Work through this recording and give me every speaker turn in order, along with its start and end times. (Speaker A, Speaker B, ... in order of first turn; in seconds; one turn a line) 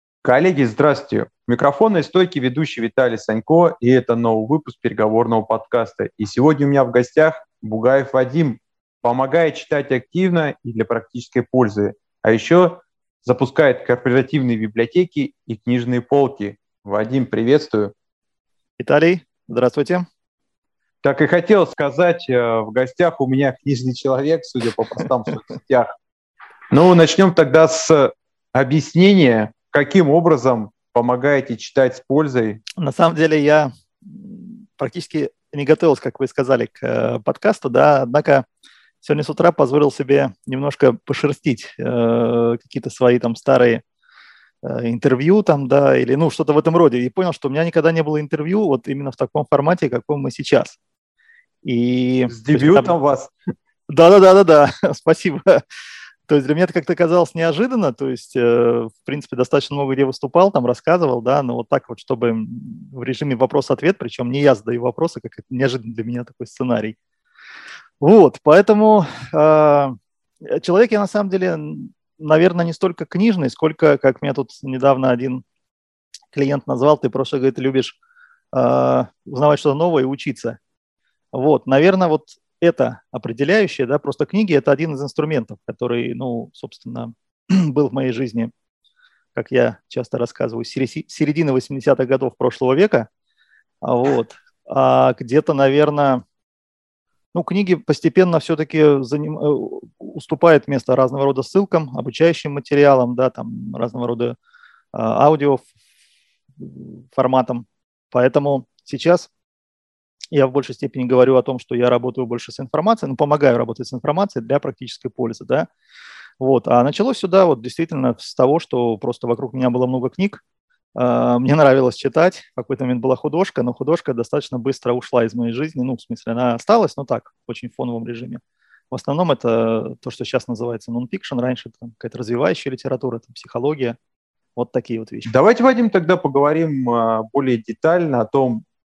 Speaker A: 0.2-17.9
Speaker B: 18.8-20.1
Speaker A: 21.0-25.9
Speaker A: 26.7-32.6
Speaker B: 32.8-38.4
Speaker B: 39.0-43.8
Speaker B: 44.6-50.8
Speaker B: 51.6-52.9
Speaker A: 52.3-53.3
Speaker B: 53.9-55.6
Speaker B: 56.3-67.0
Speaker B: 68.0-75.4
Speaker B: 76.3-77.9
Speaker B: 78.5-80.6
Speaker B: 81.3-88.5
Speaker B: 89.3-93.1
Speaker B: 93.8-96.2
Speaker B: 97.3-104.3
Speaker B: 104.9-105.6
Speaker B: 106.6-109.3
Speaker B: 110.3-115.7
Speaker B: 116.4-120.4
Speaker B: 120.9-134.0
Speaker B: 134.6-135.3
Speaker A: 135.2-138.6